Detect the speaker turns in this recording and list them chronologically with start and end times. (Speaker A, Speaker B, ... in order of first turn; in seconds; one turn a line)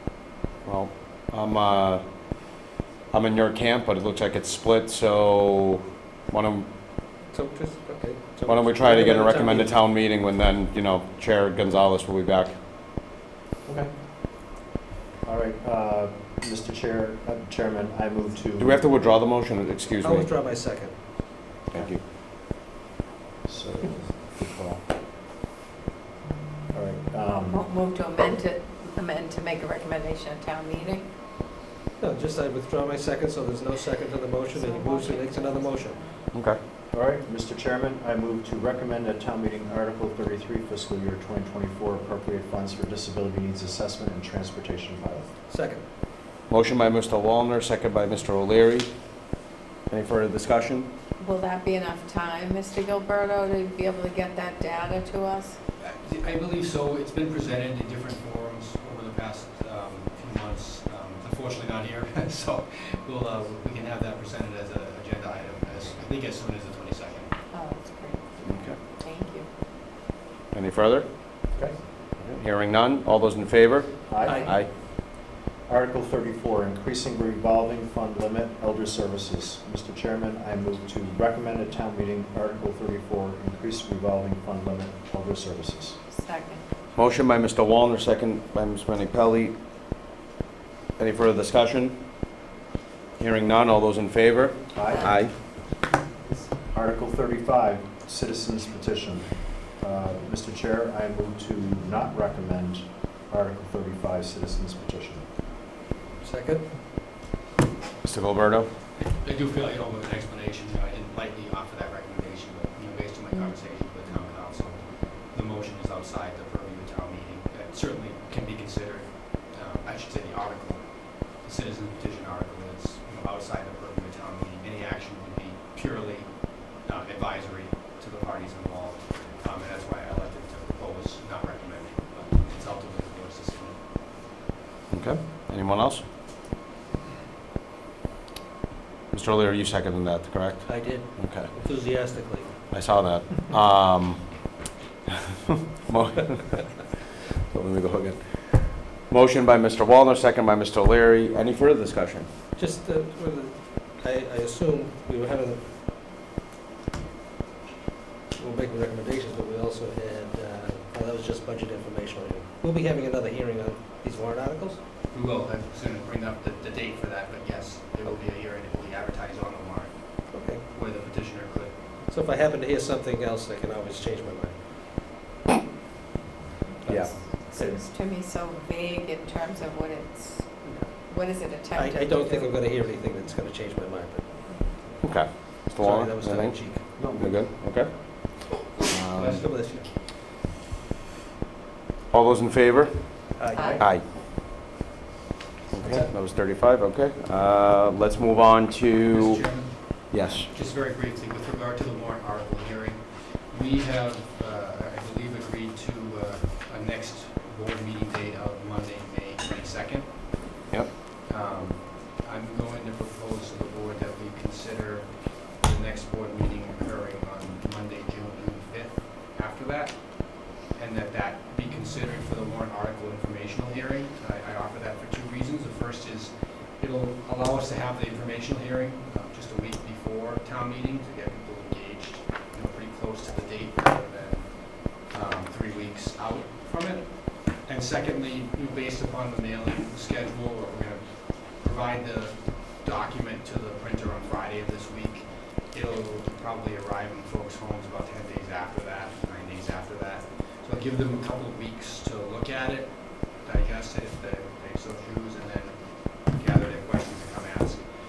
Speaker A: 0.7-2.0
Speaker A: 3.1-6.7
Speaker B: 7.3-9.7
Speaker A: 8.5-12.5
Speaker C: 13.7-13.9
Speaker C: 15.2-18.8
Speaker A: 18.6-20.3
Speaker B: 20.0-20.9
Speaker A: 21.7-22.0
Speaker C: 23.4-24.8
Speaker C: 26.7-27.6
Speaker D: 27.5-31.1
Speaker B: 32.0-36.0
Speaker D: 34.5-36.2
Speaker A: 36.3-36.6
Speaker C: 36.9-45.3
Speaker B: 45.5-45.8
Speaker A: 46.5-48.9
Speaker A: 49.9-50.9
Speaker D: 51.2-55.6
Speaker E: 55.8-67.3
Speaker D: 67.5-69.5
Speaker A: 68.4-68.8
Speaker A: 70.5-71.1
Speaker A: 72.2-74.7
Speaker C: 74.1-74.5
Speaker B: 74.2-74.5
Speaker C: 75.7-86.0
Speaker D: 86.1-86.6
Speaker A: 87.0-89.5
Speaker A: 91.0-92.0
Speaker A: 93.2-95.3
Speaker C: 94.7-95.1
Speaker C: 96.7-105.2
Speaker B: 106.2-106.7
Speaker A: 108.0-108.7
Speaker E: 109.0-133.8
Speaker A: 134.9-136.0
Speaker A: 139.1-141.5
Speaker B: 140.7-142.5
Speaker A: 142.7-144.3
Speaker A: 145.1-146.8
Speaker A: 147.4-152.3
Speaker B: 152.6-155.6
Speaker B: 158.4-164.8
Speaker E: 165.1-171.8
Speaker B: 170.3-170.6
Speaker B: 172.1-174.6
Speaker B: 176.8-177.8
Speaker A: 176.9-177.1
Speaker D: 177.3-180.5
Speaker B: 180.6-181.0
Speaker D: 181.1-182.5
Speaker B: 181.7-184.9
Speaker A: 185.0-187.9
Speaker B: 185.8-186.9
Speaker C: 187.0-187.4
Speaker A: 188.9-189.4
Speaker E: 189.1-189.8
Speaker B: 189.2-189.8
Speaker A: 192.1-194.1
Speaker B: 193.4-193.8
Speaker D: 193.5-193.8
Speaker A: 195.7-200.5
Speaker B: 195.8-196.1
Speaker E: 199.1-210.5
Speaker E: 211.2-257.8